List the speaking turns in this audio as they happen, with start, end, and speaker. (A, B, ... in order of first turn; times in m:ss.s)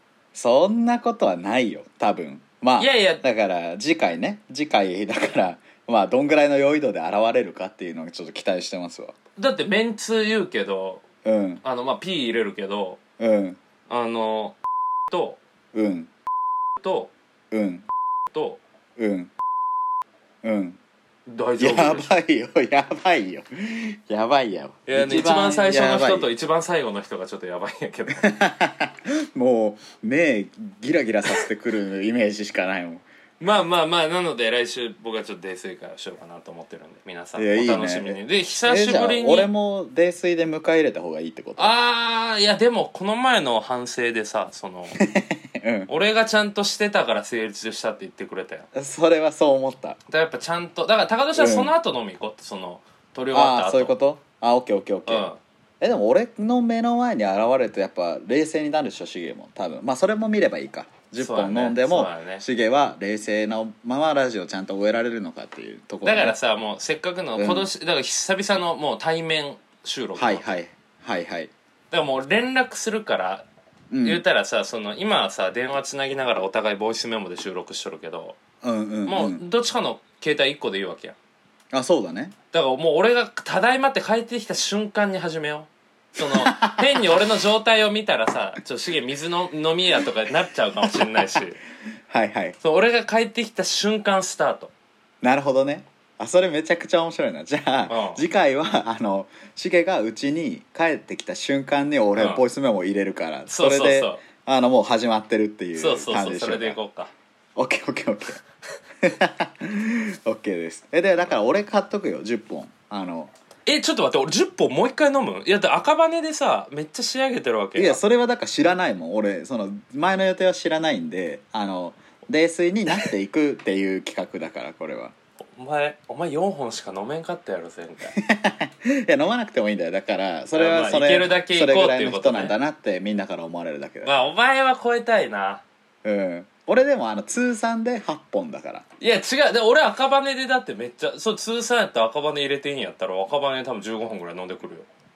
0:00.3-0:09.2 A
0:02.8-0:03.2 B
0:09.4-0:11.0 B
0:11.2-0:11.6 A
0:11.6-0:13.0 B
0:13.2-0:13.6 A
0:13.9-0:14.6 B
0:15.1-0:15.4 B
0:15.7-0:16.1 A
0:16.8-0:17.1 B
0:17.5-0:17.9 A
0:18.3-0:18.6 B
0:19.0-0:19.3 A
0:20.4-0:20.8 A
0:21.3-0:22.2 B
0:21.6-0:26.3 A
0:24.9-0:28.4 B
0:28.2-0:33.0 A
0:33.4-0:39.5 B
0:37.4-0:41.7 A
0:41.6-0:45.0 B
0:45.0-0:45.9 A
0:45.9-0:48.7 B
0:48.7-0:50.0 A
0:50.1-0:54.0 B
0:51.4-0:51.7 A
0:53.3-0:55.3 A
0:55.1-0:55.4 B
0:55.8-1:06.4 A
1:01.2-1:02.4 B
1:06.0-1:10.6 B
1:07.4-1:07.7 A
1:10.2-1:11.5 A
1:11.9-1:13.5 B
1:13.9-1:14.2 A
1:14.0-1:18.4 B
1:18.6-1:19.4 A
1:19.1-1:21.2 B
1:21.7-1:22.4 A
1:22.5-1:31.6 B
1:26.2-1:27.1 A
1:30.9-1:31.2 A
1:32.1-1:32.6 A
1:32.6-1:34.7 B
1:35.2-1:46.8 A
1:37.9-1:38.2 B
1:42.2-1:42.4 B
1:43.5-1:44.2 B
1:45.8-1:47.1 B
1:47.6-1:48.4 A
1:49.0-1:53.3 A
1:53.7-1:58.0 B
1:57.8-2:05.1 A
2:05.6-2:08.2 B
2:08.2-2:14.2 A
2:10.5-2:12.6 B
2:14.0-2:15.6 B
2:16.0-2:18.8 A
2:19.0-2:24.9 B